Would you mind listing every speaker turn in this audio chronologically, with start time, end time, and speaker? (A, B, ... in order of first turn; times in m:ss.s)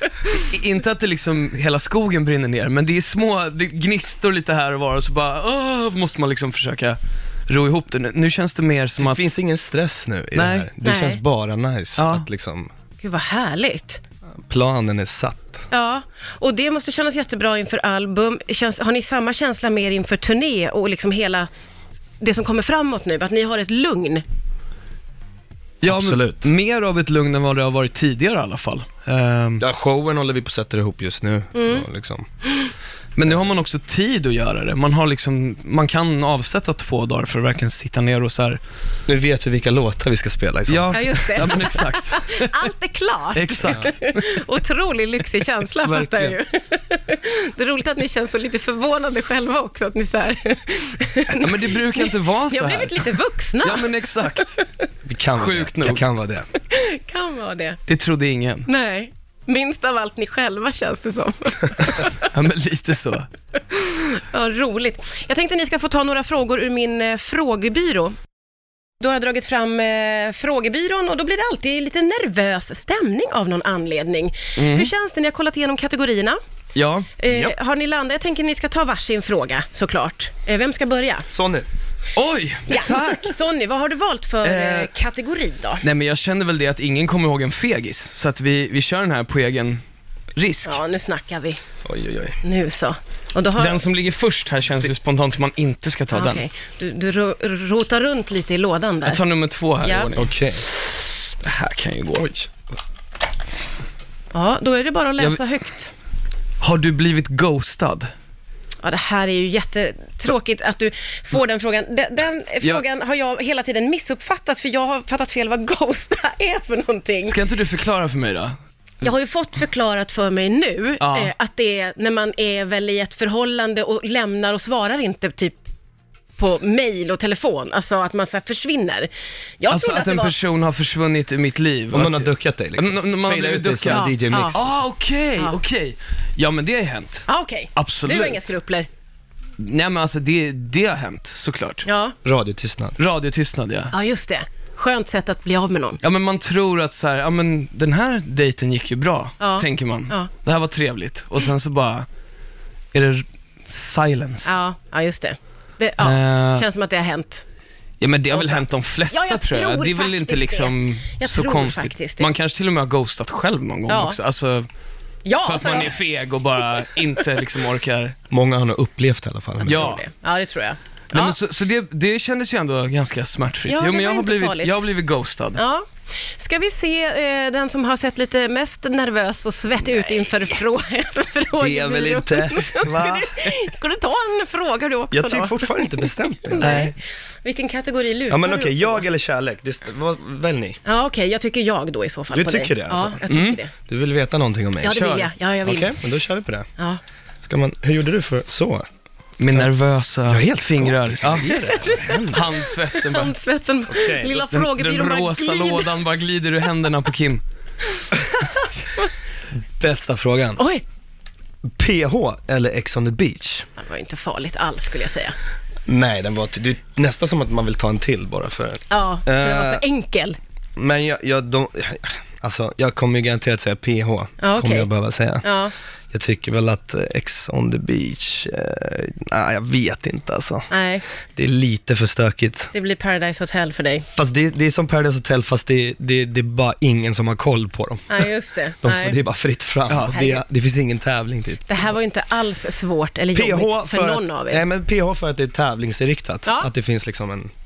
0:00.2-0:09.2 A
0:09.0-0:12.7 B
0:10.3-0:10.7 A
0:10.8-0:11.2 C
0:12.0-0:12.3 A
0:13.0-0:14.0 C
0:14.5-0:15.6 B
0:15.7-0:21.5 C
0:22.2-0:24.2 C
0:25.8-0:29.6 A
0:25.8-0:26.5 B
0:29.6-0:32.2 B
0:31.5-0:31.8 C
0:33.2-0:38.6 A
0:39.1-0:41.6 B
0:40.7-0:42.7 A
0:40.9-0:54.6 C
0:43.3-0:44.3 A
0:45.9-0:46.2 A
0:51.4-0:54.6 A
0:55.0-0:56.5 B
0:55.3-0:56.0 A
0:56.7-0:57.8 C
0:57.9-0:58.7 A
0:58.6-1:02.2 C
1:02.1-1:03.3 A
1:03.7-1:08.1 C
1:09.0-1:16.4 C
1:14.6-1:14.9 A
1:16.7-1:17.1 A
1:17.2-1:21.3 C
1:17.3-1:17.5 B
1:21.3-1:21.6 B
1:22.1-1:23.3 A
1:22.7-1:25.8 C
1:24.4-1:24.9 A
1:25.8-1:29.8 A
1:30.4-1:30.8 A
1:30.6-1:31.6 C
1:31.8-1:32.4 B
1:32.4-1:33.8 C
1:33.6-1:36.4 A
1:36.1-1:39.2 C
1:39.0-1:42.5 A
1:39.8-1:40.1 C
1:40.2-1:40.6 B
1:44.3-1:45.9 C
1:46.6-1:48.1 A
1:48.8-1:57.4 C
1:57.2-1:58.6 A
1:59.0-2:05.6 C
2:01.0-2:01.3 A
2:06.4-2:10.3 C
2:09.7-2:18.5 A
2:11.9-2:14.7 B
2:13.9-2:14.6 C
2:17.3-2:18.9 C
2:19.6-2:21.8 A
2:21.8-2:22.1 C
2:22.2-2:23.0 B
2:23.0-2:23.9 A
2:23.9-2:26.0 C
2:26.0-2:32.1 A
2:29.4-2:30.3 C
2:32.9-2:34.6 A
2:34.4-2:37.4 C
2:36.0-2:36.6 A
2:38.0-2:44.7 A
2:38.3-2:42.3 C
2:43.9-2:44.2 C
2:45.2-2:46.0 C
2:45.4-2:48.2 A
2:48.3-2:49.9 B
2:49.6-2:50.0 A
2:49.6-2:51.4 C
2:51.1-2:55.6 A
2:53.7-2:54.8 C
2:55.5-3:09.0 C
3:01.6-3:03.4 B
3:05.1-3:06.9 B
3:06.6-3:06.9 A
3:08.3-3:10.8 B
3:10.8-3:13.7 C
3:12.3-3:13.2 B
3:13.3-3:13.6 A
3:13.8-3:16.7 B
3:14.8-3:16.0 C
3:17.4-3:18.8 B
3:19.4-3:21.6 A
3:20.2-3:22.4 B
3:21.5-3:26.0 C
3:22.2-3:23.3 A
3:23.9-3:24.4 B
3:24.3-3:27.4 A
3:28.0-3:29.1 C
3:29.8-3:30.6 B
3:30.6-3:30.8 C
3:31.7-3:33.7 B
3:33.8-3:35.4 C
3:35.9-3:39.8 B
3:38.9-3:40.4 C
3:40.8-3:45.4 B
3:44.4-3:44.9 C
3:45.4-3:45.7 C
3:46.1-3:50.7 B
3:50.7-3:51.0 C
3:51.3-3:52.7 B
3:52.7-3:54.0 C
3:54.1-3:58.3 B
3:58.1-3:59.2 C
3:58.8-4:01.7 B
3:59.9-4:00.2 A
4:00.1-4:00.4 C
4:01.6-4:04.6 C
4:03.3-4:07.5 B